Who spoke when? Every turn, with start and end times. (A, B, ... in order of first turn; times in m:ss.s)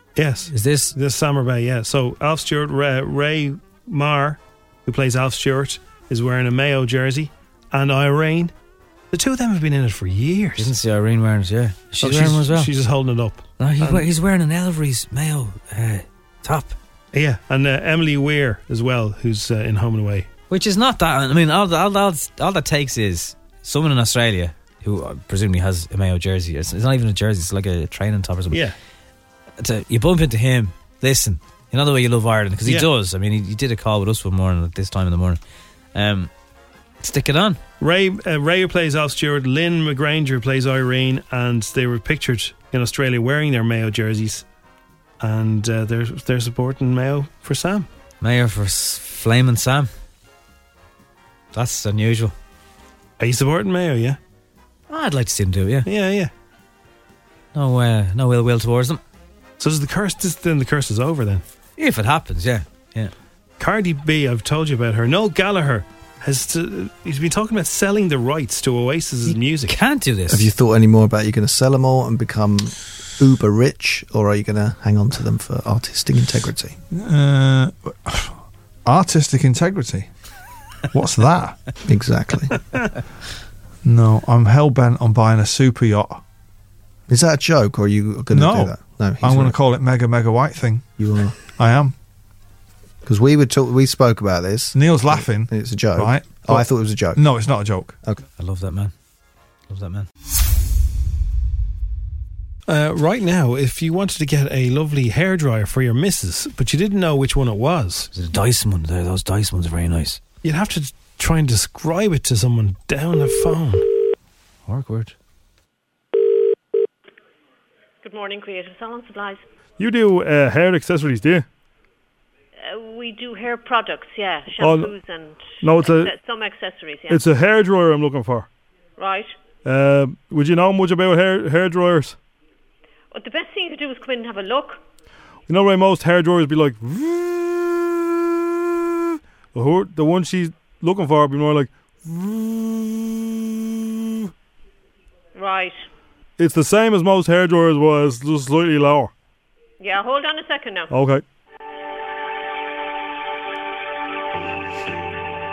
0:00.2-0:08.5 A
0:00.5-0:01.0 B
0:09.1-0:10.7 A
0:10.6-0:12.7 B
0:12.0-0:14.1 A
0:13.6-0:16.8 B
0:17.1-0:20.3 A
0:20.5-0:28.6 B
0:29.6-0:35.4 B
0:35.9-0:36.3 B
0:37.0-0:37.6 B
0:37.8-0:44.4 A
0:45.2-0:47.9 A
0:48.2-0:49.9 B
0:51.5-0:52.3 B
0:53.2-0:54.2 A
0:54.9-0:55.9 B
0:55.8-0:56.3 A
0:57.5-0:59.0 B
0:59.6-1:01.4 A
1:01.8-1:03.1 B
1:03.6-1:09.8 A
1:09.3-1:10.5 B
1:10.3-1:16.8 C
1:16.9-1:18.3 D
1:18.9-1:20.1 D
1:20.9-1:21.6 D
1:21.8-1:22.5 C
1:23.8-1:26.2 D
1:27.1-1:29.6 C
1:28.3-1:30.8 D
1:31.0-1:31.4 C
1:31.4-1:31.9 D
1:33.0-1:37.2 C
1:34.7-1:38.0 D
1:38.4-1:38.9 B
1:39.7-1:40.1 B
1:42.7-1:48.1 A
1:48.1-1:50.2 B
1:50.4-1:53.8 A
1:54.7-1:55.1 B
1:58.0-1:59.4 E
1:59.8-2:01.5 F
2:02.6-2:07.2 E
2:04.6-2:04.9 F
2:05.6-2:06.1 F
2:07.1-2:08.5 F
2:09.0-2:09.3 E
2:09.6-2:12.2 F
2:13.1-2:14.8 E
2:15.5-2:18.2 F
2:19.5-2:24.2 F
2:25.4-2:25.8 E
2:26.4-2:29.1 F
2:29.8-2:30.9 E
2:30.9-2:31.2 F